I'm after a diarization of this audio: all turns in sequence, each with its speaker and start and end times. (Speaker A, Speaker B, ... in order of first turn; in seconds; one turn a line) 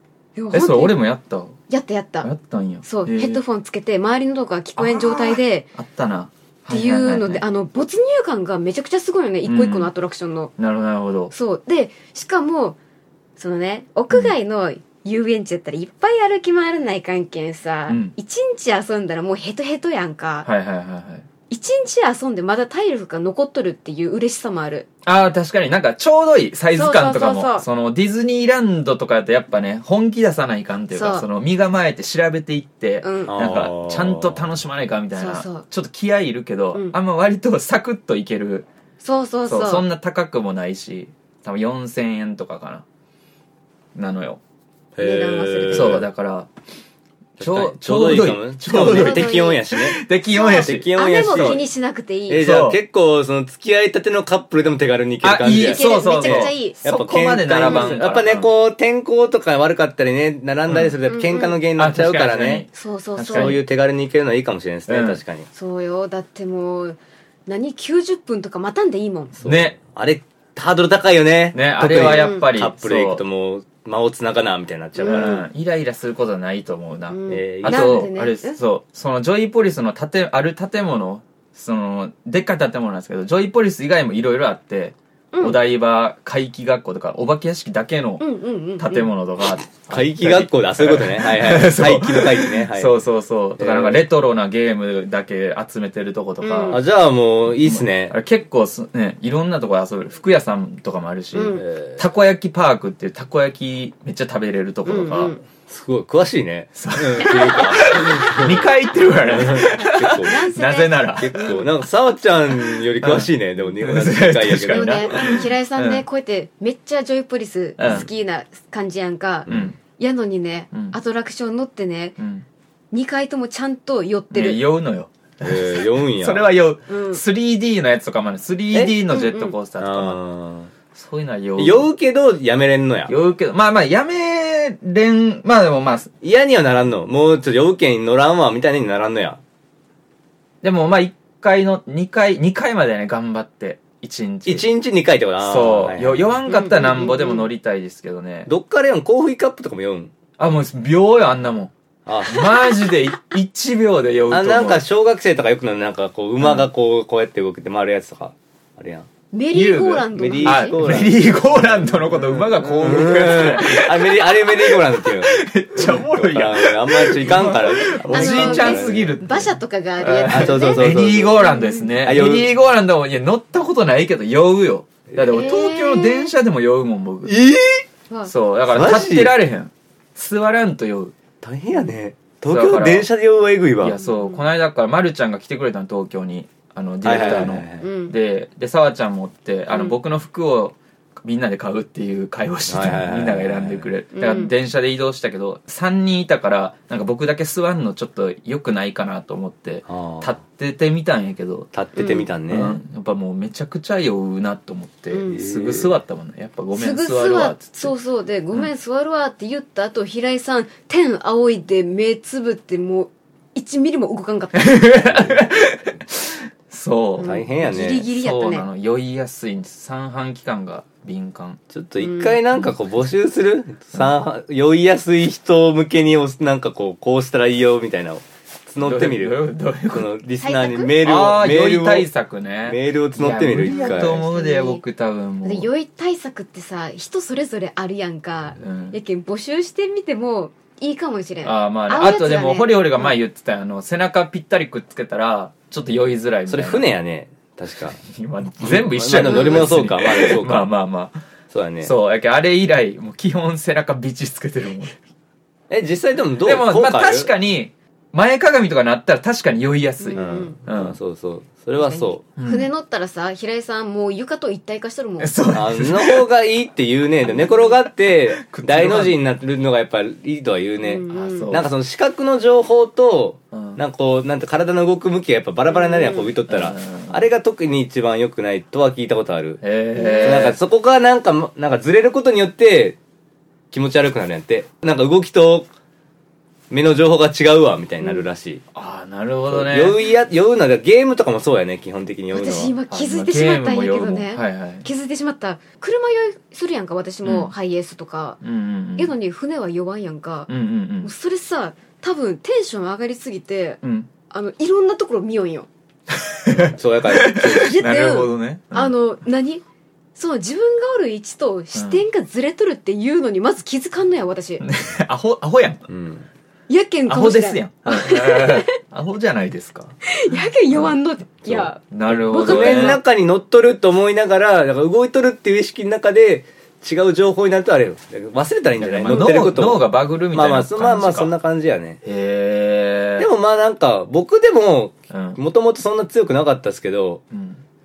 Speaker A: 0.3-1.0
Speaker B: 0.5-1.6
Speaker A: 1.7-2.3
Speaker B: 2.2-3.4
Speaker A: 2.8-5.7
Speaker B: 4.8-7.4
Speaker A: 6.7-10.5
Speaker B: 9.4-9.9
Speaker B: 10.6-11.3
Speaker A: 11.3-12.8
Speaker A: 13.4-20.5
Speaker B: 17.9-18.1
Speaker B: 20.4-21.2
Speaker A: 21.5-24.9
Speaker B: 25.0-38.6
Speaker A: 26.7-27.7
Speaker A: 30.9-31.3
Speaker A: 33.0-33.4
Speaker C: 33.3-34.5
Speaker A: 35.1-35.6
Speaker A: 39.0-39.9
Speaker B: 39.5-42.8
Speaker B: 43.9-44.4
Speaker A: 45.0-46.0
Speaker C: 45.0-46.1
Speaker B: 45.7-46.5
Speaker C: 47.4-50.0
Speaker B: 47.4-51.6
Speaker A: 48.7-49.7
Speaker A: 50.3-52.5
Speaker C: 50.6-51.6
Speaker C: 52.3-62.6
Speaker B: 52.3-52.8
Speaker B: 55.2-58.5
Speaker A: 55.4-56.8
Speaker A: 57.5-58.0
Speaker B: 60.7-60.9
Speaker A: 61.0-61.6
Speaker B: 61.8-63.6
Speaker A: 62.7-63.6
Speaker C: 63.3-65.5
Speaker B: 64.9-65.2
Speaker A: 65.5-69.3
Speaker C: 69.4-75.4
Speaker B: 69.4-69.8
Speaker B: 71.5-73.2
Speaker A: 72.0-72.5
Speaker A: 75.0-75.5
Speaker B: 75.0-88.2
Speaker A: 77.1-78.6
Speaker C: 77.3-78.1
Speaker A: 85.3-85.6
Speaker A: 88.2-89.1
Speaker B: 88.8-96.8
Speaker C: 89.9-93.0
Speaker C: 93.6-94.0
Speaker A: 96.4-96.8
Speaker C: 96.7-98.2
Speaker B: 97.6-105.3
Speaker A: 101.3-101.6
Speaker C: 101.5-102.0
Speaker A: 104.8-105.4
Speaker C: 105.7-108.7
Speaker B: 106.7-111.5
Speaker A: 107.2-107.7
Speaker C: 109.3-110.3
Speaker A: 109.8-111.7
Speaker C: 111.2-115.4
Speaker B: 112.5-113.3
Speaker B: 113.8-116.0
Speaker A: 114.7-122.2
Speaker B: 117.8-118.0
Speaker C: 119.5-119.7
Speaker B: 119.5-119.8
Speaker B: 120.7-121.0
Speaker B: 122.2-122.4
Speaker A: 122.9-124.6
Speaker B: 124.3-130.2
Speaker C: 125.4-126.5
Speaker A: 126.9-127.2
Speaker A: 129.1-129.6
Speaker C: 129.8-130.7
Speaker B: 130.9-131.9
Speaker C: 131.6-133.1
Speaker B: 133.1-136.1
Speaker C: 136.2-139.4
Speaker B: 140.6-144.7
Speaker C: 144.4-146.4
Speaker B: 145.4-148.5
Speaker A: 146.5-147.5
Speaker C: 148.5-150.1
Speaker B: 150.4-151.7
Speaker C: 152.1-152.5
Speaker B: 152.2-154.8
Speaker C: 154.3-159.1
Speaker B: 156.4-156.7
Speaker A: 159.3-160.8
Speaker B: 159.5-177.3
Speaker C: 160.1-169.2
Speaker A: 168.1-171.9
Speaker C: 170.2-171.5
Speaker C: 172.0-172.5
Speaker A: 175.3-176.3
Speaker C: 177.3-177.8
Speaker B: 178.3-181.1
Speaker C: 178.7-179.3
Speaker C: 181.4-183.9
Speaker B: 182.5-183.1
Speaker B: 183.8-201.7
Speaker A: 184.0-184.4
Speaker C: 187.0-187.9
Speaker A: 187.2-188.1
Speaker A: 189.7-190.0
Speaker C: 192.7-193.9
Speaker A: 194.1-194.5
Speaker C: 199.9-200.4
Speaker C: 201.7-202.8
Speaker A: 201.9-202.3
Speaker B: 202.5-207.9
Speaker A: 205.1-205.4
Speaker C: 205.3-205.9
Speaker A: 206.7-215.3
Speaker B: 214.5-221.6
Speaker A: 217.2-218.7
Speaker C: 217.2-218.1
Speaker C: 221.7-232.1
Speaker A: 222.0-222.4
Speaker B: 222.5-223.1
Speaker B: 228.8-230.1
Speaker A: 230.4-231.0
Speaker B: 231.0-235.7
Speaker C: 232.7-234.2
Speaker A: 233.6-234.8
Speaker A: 235.4-243.2
Speaker B: 238.6-239.0
Speaker B: 241.4-246.9
Speaker C: 246.5-248.0
Speaker B: 248.0-251.2
Speaker C: 248.6-250.7
Speaker A: 249.2-249.7
Speaker C: 251.5-251.9
Speaker B: 251.8-254.9
Speaker C: 255.7-257.3
Speaker B: 256.4-261.0
Speaker A: 260.0-260.6
Speaker C: 260.1-262.2
Speaker A: 261.8-265.4
Speaker B: 262.4-262.7
Speaker B: 265.2-266.3
Speaker C: 265.5-279.6
Speaker B: 268.1-269.2
Speaker A: 270.8-271.6
Speaker B: 271.1-271.7
Speaker B: 273.5-273.8
Speaker A: 275.8-276.3
Speaker B: 276.5-277.2
Speaker B: 279.6-280.6
Speaker A: 279.9-280.5
Speaker C: 280.2-283.0
Speaker C: 283.7-285.7
Speaker C: 286.7-288.6
Speaker A: 288.0-288.3
Speaker B: 288.7-289.9
Speaker C: 289.5-292.7
Speaker A: 292.3-298.4
Speaker B: 292.9-294.9
Speaker B: 297.2-297.5
Speaker B: 298.4-299.1
Speaker A: 298.9-300.5
Speaker B: 300.5-301.1
Speaker A: 301.0-305.7
Speaker B: 303.8-304.1
Speaker B: 306.4-308.9
Speaker C: 306.8-307.8
Speaker A: 307.4-309.6
Speaker A: 310.1-314.6
Speaker B: 311.7-312.0
Speaker B: 314.6-315.9
Speaker C: 315.9-316.3
Speaker A: 316.7-318.7
Speaker B: 317.1-321.0
Speaker A: 320.1-323.0
Speaker B: 321.5-323.0
Speaker C: 321.5-332.0
Speaker B: 328.8-331.3
Speaker A: 329.1-329.3
Speaker B: 332.0-333.3
Speaker C: 333.2-337.2
Speaker B: 335.1-335.4
Speaker B: 337.3-337.6